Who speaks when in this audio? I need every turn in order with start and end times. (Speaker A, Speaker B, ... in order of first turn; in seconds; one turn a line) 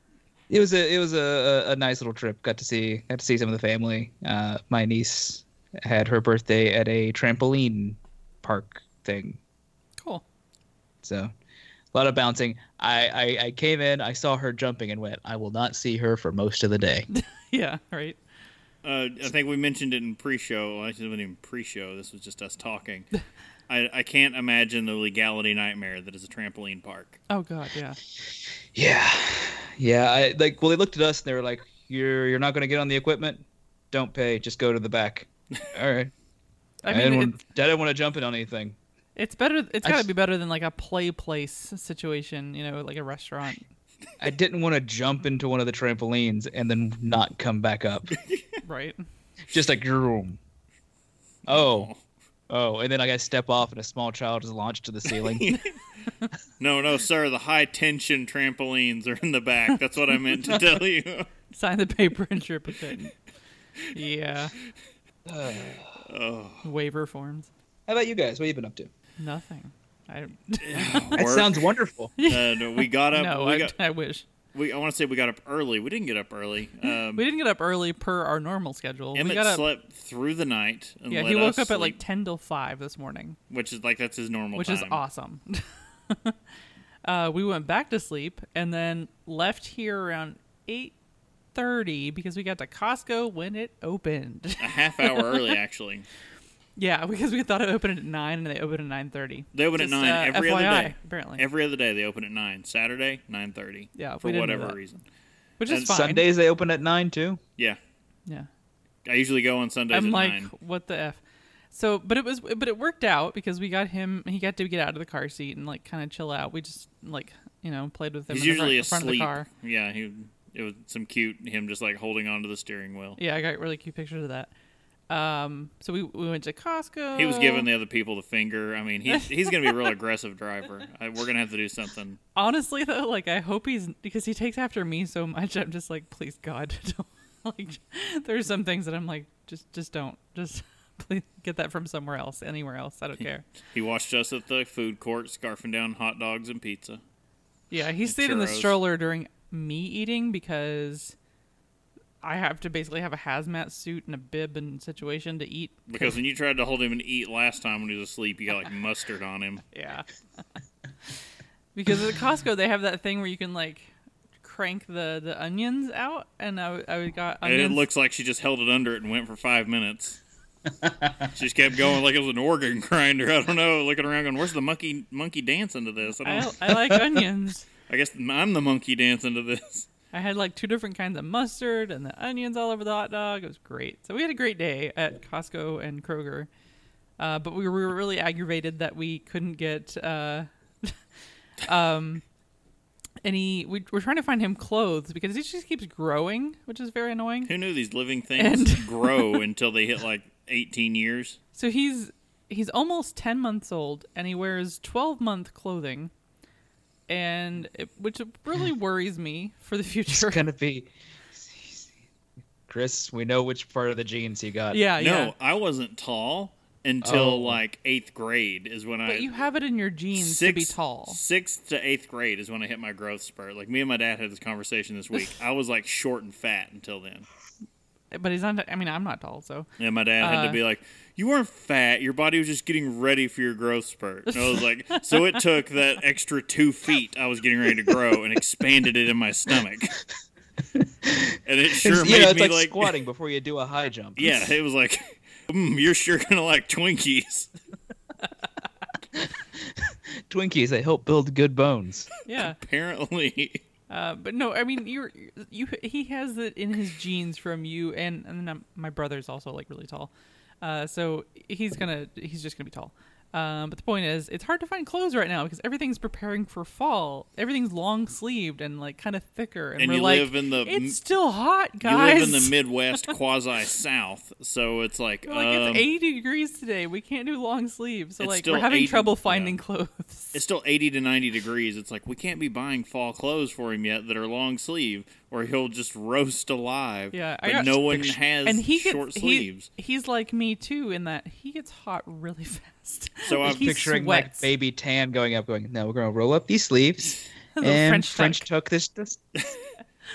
Speaker A: 0.5-9.4
Speaker B: 10.0-10.2
Speaker A: 11.0-11.3
Speaker A: 11.9-17.1
Speaker B: 17.1-18.2
Speaker C: 18.8-23.1
Speaker C: 23.7-27.2
Speaker B: 27.3-28.0
Speaker A: 28.7-36.1
Speaker B: 36.8-37.4
Speaker A: 36.9-38.8
Speaker B: 39.1-43.7
Speaker A: 39.8-40.1
Speaker A: 44.2-48.1
Speaker C: 48.1-48.6
Speaker B: 48.6-49.0
Speaker A: 49.5-50.4
Speaker C: 51.5-52.0
Speaker A: 51.5-51.9
Speaker A: 52.5-55.5
Speaker C: 55.2-55.8
Speaker C: 56.6-61.3
Speaker B: 61.5-63.1
Speaker B: 63.9-64.5
Speaker A: 65.2-65.9
Speaker C: 66.0-66.6
Speaker B: 66.6-67.5
Speaker A: 67.9-68.9
Speaker B: 69.2-71.2
Speaker C: 70.6-71.6
Speaker A: 71.1-72.1
Speaker B: 72.2-74.2
Speaker C: 72.2-73.8
Speaker C: 74.5-77.2
Speaker B: 77.1-79.7
Speaker C: 79.1-82.0
Speaker B: 81.1-83.4
Speaker C: 83.5-85.0
Speaker B: 84.5-86.3
Speaker B: 87.0-90.9
Speaker B: 91.5-95.5
Speaker C: 94.6-96.1
Speaker B: 96.8-101.4
Speaker C: 99.5-105.0
Speaker B: 103.9-104.8
Speaker B: 105.6-106.2
Speaker A: 105.8-107.4
Speaker C: 109.0-110.5
Speaker B: 109.9-119.5
Speaker C: 118.3-123.2
Speaker B: 123.2-124.5
Speaker B: 125.1-127.7
Speaker C: 127.1-132.2
Speaker B: 132.3-143.4
Speaker C: 143.7-147.0
Speaker B: 147.7-151.2
Speaker C: 148.0-148.8
Speaker B: 152.2-156.1
Speaker C: 155.9-159.6
Speaker B: 159.7-160.1
Speaker B: 161.7-167.8
Speaker C: 167.4-170.2
Speaker A: 170.8-171.1
Speaker C: 171.2-176.5
Speaker B: 176.2-177.7
Speaker C: 177.9-179.9
Speaker B: 180.1-186.5
Speaker B: 187.2-191.0
Speaker B: 191.6-192.2
Speaker B: 193.2-197.5
Speaker C: 197.4-201.4
Speaker B: 198.4-199.4
Speaker B: 201.5-206.1
Speaker B: 207.1-210.4
Speaker A: 210.1-211.9
Speaker A: 212.7-214.8
Speaker B: 214.7-215.3
Speaker C: 215.0-219.3
Speaker A: 217.0-217.6
Speaker B: 219.1-221.2
Speaker C: 220.1-227.3
Speaker B: 228.1-229.7
Speaker C: 229.8-240.0
Speaker B: 230.2-230.6
Speaker B: 234.3-235.4
Speaker A: 240.7-244.4
Speaker C: 241.4-242.9
Speaker C: 244.2-247.5
Speaker A: 249.2-252.1
Speaker B: 252.2-252.6
Speaker C: 252.3-253.6
Speaker B: 253.9-272.5
Speaker C: 269.8-271.0
Speaker C: 271.8-275.9
Speaker B: 275.3-280.4
Speaker C: 278.2-279.6
Speaker C: 280.3-289.7
Speaker B: 287.1-294.5
Speaker C: 293.2-293.8
Speaker A: 293.4-299.2
Speaker B: 297.5-298.5
Speaker C: 299.4-299.6